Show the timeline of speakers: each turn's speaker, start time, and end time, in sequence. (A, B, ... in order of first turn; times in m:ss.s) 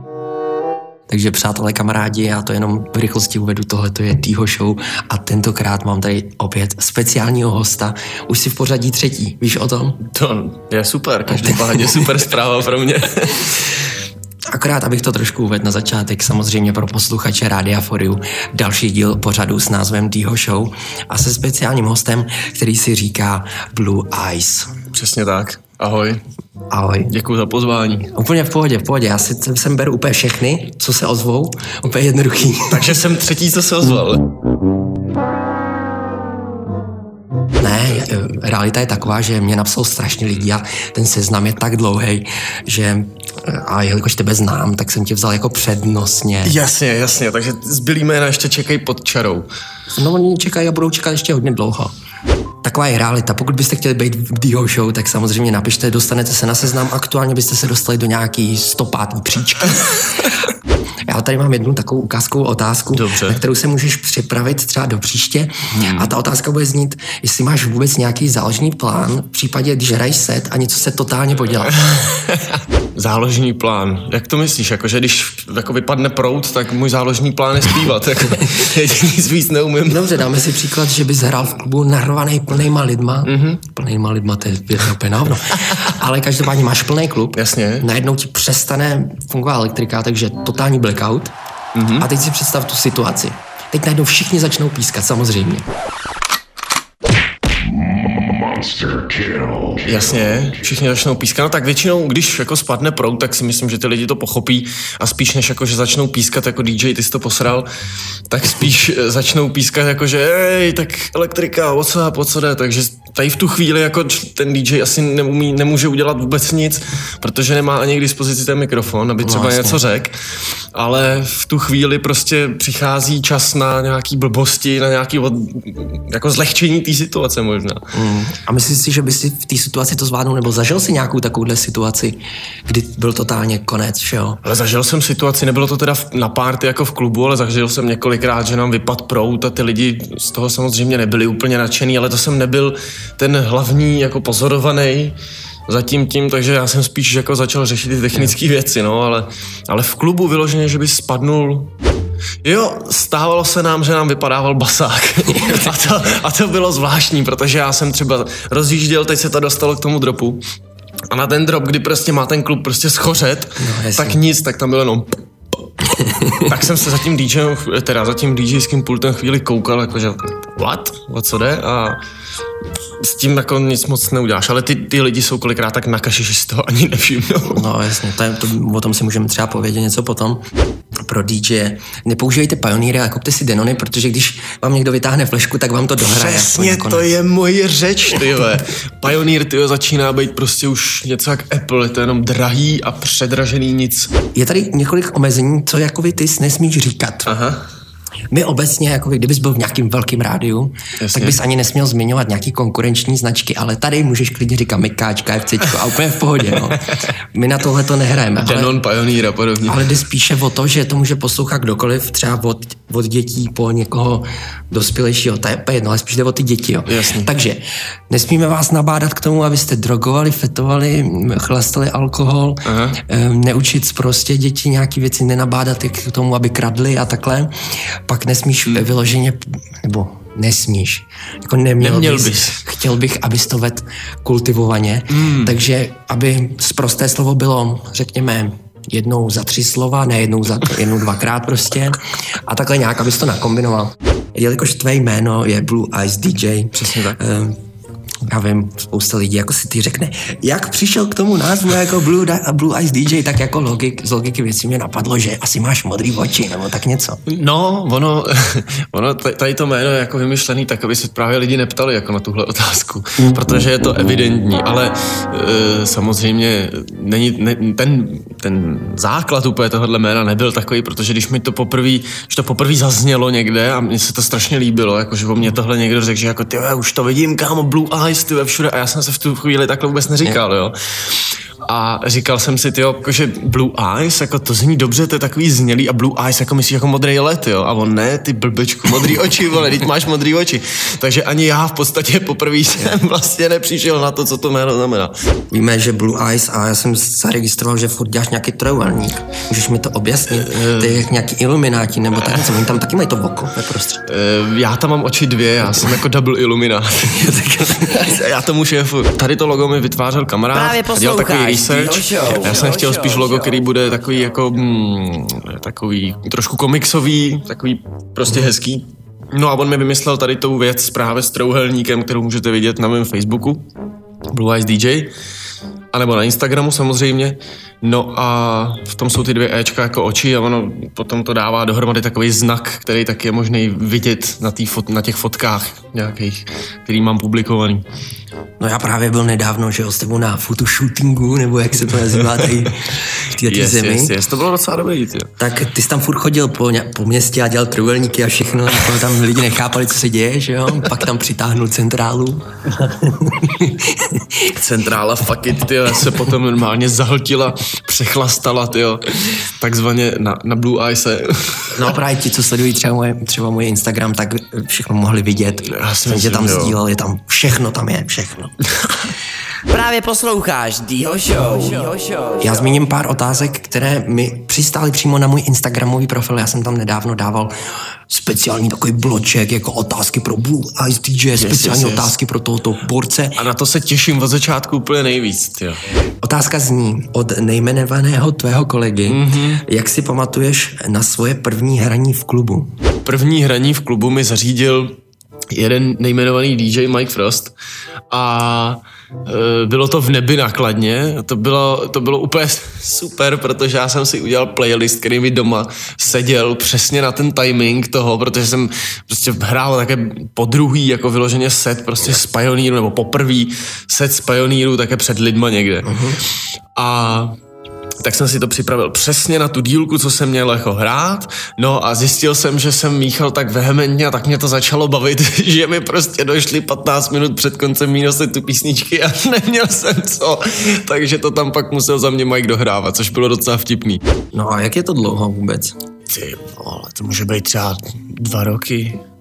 0:01.1-0:10.0 A
0:10.0-0:13.8 B
0:11.3-0:12.2 A
0:14.5-0:24.7 A
0:24.9-0:26.2 B
0:26.7-0:27.1 A
0:27.1-0:28.1 B
0:28.1-0:33.0 A
0:32.7-0:34.3 B
0:37.6-0:46.6 A
0:46.4-0:49.5 B
0:49.9-0:51.9 A
0:52.6-1:00.5 A
1:01.1-1:11.8 A
1:02.9-1:03.4 B
1:05.7-1:06.1 B
1:11.7-1:20.1 B
1:19.9-1:31.4 A
1:23.3-1:23.6 B
1:27.4-1:27.9 B
1:31.8-1:32.1 B
1:32.0-1:35.7 A
1:39.8-1:47.7 B
1:48.3-2:07.9 B
1:59.2-1:59.8 A
2:07.9-2:14.4 A
2:14.4-2:25.2 B
2:25.7-2:31.7 B
2:32.4-2:40.4 B
2:35.3-2:35.7 A
2:41.1-2:45.2 B
2:43.6-2:44.2 A
2:46.0-2:46.5 A
2:46.4-2:52.0 B
2:53.0-2:57.6 B
2:57.5-3:00.4 A
3:01.0-3:07.0 A
3:06.0-3:14.1 B
3:14.3-3:17.3 A
3:17.3-3:17.7 B
3:18.3-3:28.8 A
3:21.0-3:21.4 B
3:26.7-3:27.0 B
3:28.4-3:29.9 B
3:29.7-4:07.6 A
3:36.9-3:37.3 B
3:42.6-3:43.0 B
3:51.8-3:52.6 B
3:55.1-3:55.6 B
4:06.7-4:07.2 B
4:08.3-4:17.2 A
4:17.3-4:55.1 B
4:55.5-5:04.0 A
5:00.3-5:01.1 B
5:04.1-5:23.7 B
5:07.1-5:08.2 A
5:10.5-5:13.5 C
5:24.3-5:25.1 B
5:25.9-5:37.8 B
5:38.6-5:44.2 A
5:42.2-5:42.7 B
5:43.4-5:45.3 B
5:45.4-5:54.5 A
5:54.5-6:01.9 B
6:01.7-6:08.5 A
6:05.6-6:06.8 B
6:08.8-6:09.1 B
6:09.7-6:12.7 C
6:12.4-6:17.6 A
6:18.1-6:23.4 A
6:21.4-6:22.1 B
6:23.4-6:25.8 B
6:26.2-6:32.7 A
6:29.1-6:29.6 B
6:33.0-6:35.0 B
6:35.5-6:37.5 B
6:38.1-6:57.4 B
6:55.8-6:56.2 A
6:58.0-7:14.0 B
7:14.3-7:15.8 A
7:16.1-7:19.0 B